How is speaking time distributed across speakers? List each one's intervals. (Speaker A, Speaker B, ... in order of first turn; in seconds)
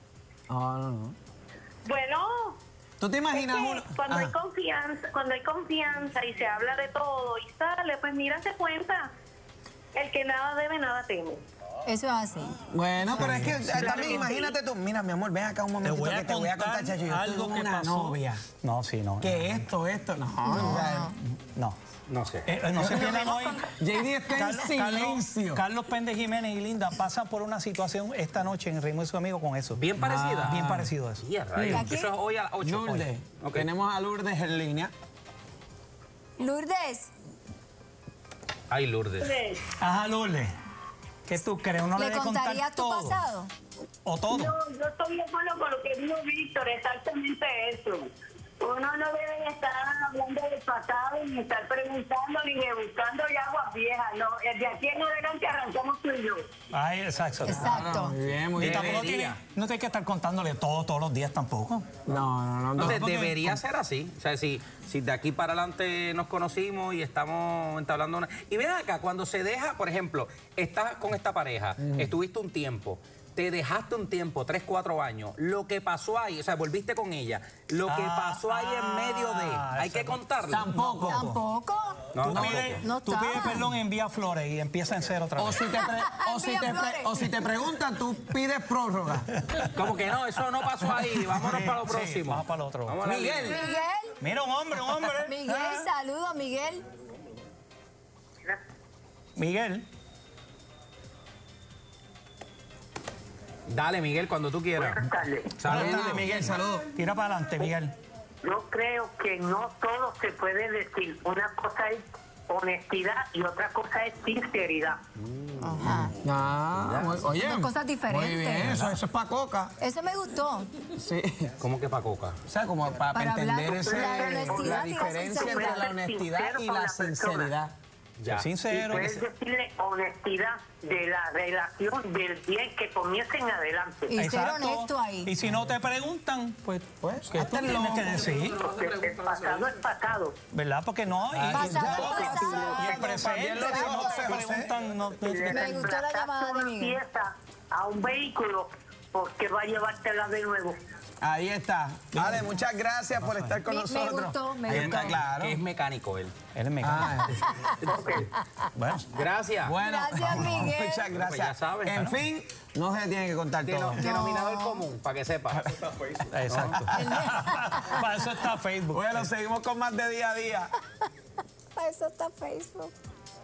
Speaker A: 0.5-1.1, 3.0-4.3, 12.7-18.5, 19.2-21.1, 22.8-25.6, 30.0-30.9, 31.6-31.9, 32.6-34.9, 57.5-59.1, 62.0-63.6, 71.8-72.1, 80.5-81.4, 82.2-82.7, 85.4-89.3, 93.0-93.7, 105.7-106.9, 116.2-119.7, 120.9-121.5, 122.5-127.7, 137.0-138.3, 141.3-144.7, 151.2-155.6, 156.8-157.4, 159.6-164.3, 165.6-165.9, 168.9-170.7
Speaker B: 1.9-2.6, 3.4-9.1, 9.9-11.4, 13.1-14.5, 39.2-39.7, 44.3-48.1, 48.6-56.4, 104.8-105.5, 108.4-115.0, 123.8-127.5, 128.7-134.1, 138.2-140.3, 142.4-142.7, 145.2-150.8, 157.8-158.3
Speaker C: 11.8-12.6, 20.4-21.1, 31.6-32.1, 36.4-37.1, 42.0-43.5, 57.4-58.2, 81.1-82.1, 82.6-83.7, 86.0-87.3, 93.5-94.1, 95.2-96.8, 115.6-116.1, 117.4-118.8, 119.8-120.7, 123.1-125.8, 134.1-135.3, 141.5-144.3, 145.4-147.0, 153.7-155.2, 159.8-161.1, 164.0-164.8, 166.9-168.1, 171.7-172.9
Speaker D: 13.1-14.2, 15.8-19.6, 21.2-21.8, 22.4-23.6, 24.3-29.8, 30.5-31.8, 39.8-40.5, 41.2-43.2, 44.0-44.5, 56.7-57.7, 58.6-61.9, 62.8-63.3, 77.8-81.4, 82.2-85.6, 91.3-93.0, 94.2-95.9, 99.3-99.9, 105.6-107.9, 118.6-119.0, 128.3-129.2, 134.2-138.6, 140.5-145.8, 152.2-152.5, 156.5-157.3, 158.8-159.1, 166.3-169.3
Speaker E: 22.1-22.5, 29.7-30.7, 31.2-33.7, 38.7-39.3, 58.5-59.4, 62.8-80.7, 82.1-82.8, 89.8-93.6, 103.7-105.0, 105.5-106.3, 115.4-115.8, 116.8-117.3, 121.6-122.4, 128.2-128.5, 138.0-139.8, 154.7-156.3, 157.8-158.2, 159.1-159.8, 160.4-162.1, 163.6-165.8, 166.5-166.8